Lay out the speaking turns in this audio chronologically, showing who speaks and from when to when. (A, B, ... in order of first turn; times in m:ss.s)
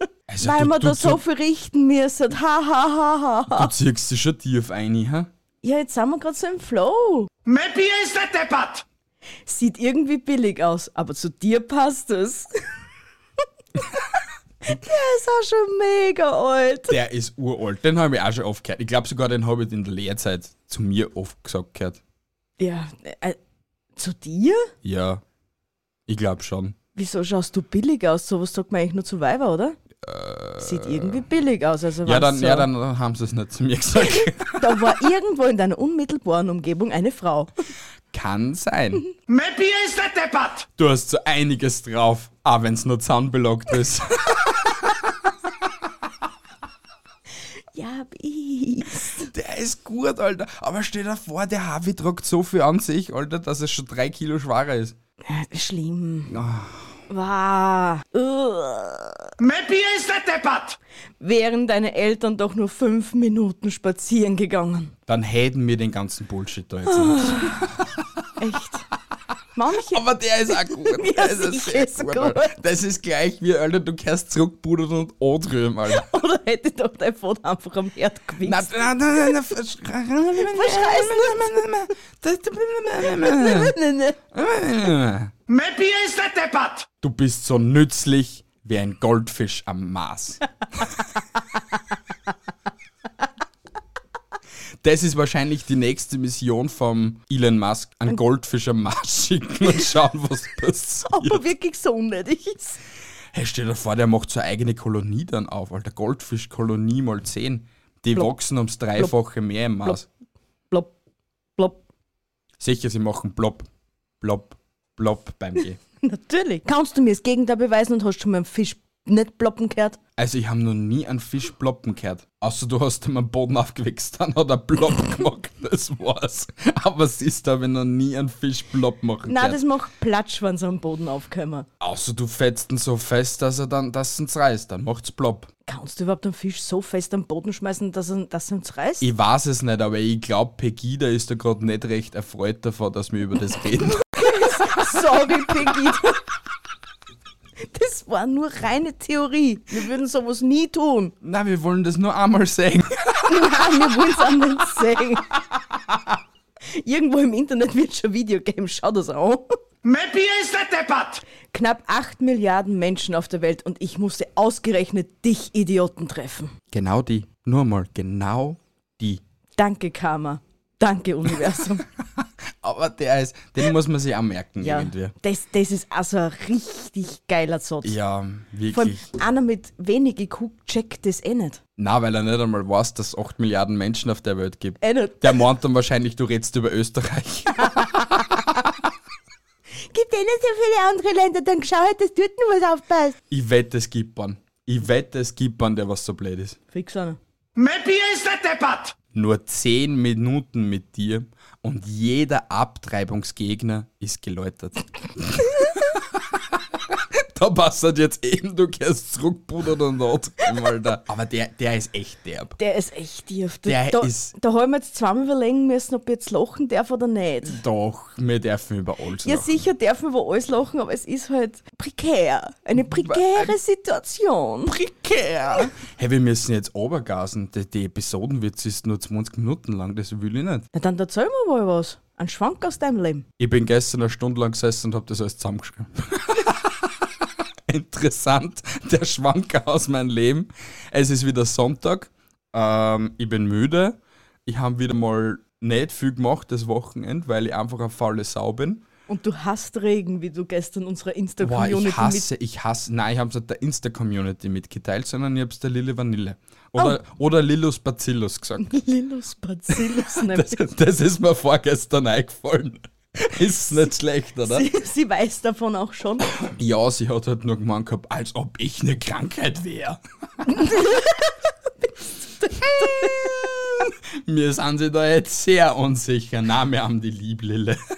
0:00.3-0:01.2 A
0:00.4-0:03.7 B
0:03.5-0:05.3 A
0:05.6-0:07.3 B
0:07.4-0:08.8 C
0:09.5-0:12.5 B
0:14.6-0:17.0 B
0:16.9-0:22.0 A
0:22.6-0:23.4 B
0:24.0-0:24.7 B
0:24.8-0:25.2 A
0:26.1-0:26.8 A
0:27.0-0:29.8 B
0:30.0-0:31.2 A
0:30.6-0:32.7 B
0:32.0-0:34.8 A
0:34.0-0:37.5 B
0:38.1-0:39.0 A
0:39.3-0:40.7 C
0:40.8-0:44.8 A
0:47.7-0:49.3 B
0:49.3-0:55.0 A
0:55.2-0:56.4 B
0:56.3-0:57.0 A
0:57.1-0:59.3 B
0:59.4-1:00.8 C
1:01.2-1:04.9 B
1:05.1-1:08.0 A
1:06.9-1:07.6 B
1:08.4-1:08.9 B
1:09.6-1:12.6 B
1:09.9-1:16.1 A
1:15.9-1:18.7 B
1:18.4-1:23.8 A
1:20.4-1:21.7 B
1:23.1-1:24.2 B
1:24.3-1:25.3 A
1:25.5-1:26.9 C
1:27.0-1:30.4 A
1:34.8-1:41.5 A
1:41.1-1:42.8 B
1:43.3-1:50.1 A
1:52.6-1:53.7 A
1:54.2-1:55.8 A
1:56.0-2:00.0 B
2:00.2-2:09.6 A
2:09.2-2:11.6 B
2:11.8-2:15.5 A
2:15.7-2:19.1 B
2:19.0-2:24.0 A
2:24.0-2:26.2 B
2:27.7-2:31.1 B
2:31.2-2:33.6 A
2:33.2-2:35.2 B
2:36.7-2:39.5 B
2:39.8-2:41.2 C
2:41.5-2:46.5 B
2:46.7-2:49.2 A
2:49.6-2:51.8 B
2:52.2-2:55.1 A
2:54.6-2:58.0 B
2:57.8-2:59.0 A
2:58.7-3:01.6 B
3:01.8-3:08.2 A
3:04.8-3:05.3 B
3:07.7-3:08.2 B
3:09.9-3:13.2 B
3:13.3-3:16.6 A
3:16.7-3:17.2 B
3:17.6-3:19.0 C
3:19.1-3:32.6 A
3:32.6-3:37.6 B
3:33.6-3:34.3 A
3:37.4-3:39.6 A
3:39.2-3:44.8 B
3:42.9-3:43.5 A
3:44.7-3:50.7 A
3:50.7-3:53.2 B
3:53.4-4:08.8 A
4:09.1-4:12.3 B
4:11.4-4:18.8 A
4:18.6-4:20.6 B
4:19.7-4:24.6 A
4:24.4-4:26.3 B
4:26.4-4:30.8 A
4:30.5-4:31.3 B
4:32.0-4:33.5 B
4:32.7-4:37.8 A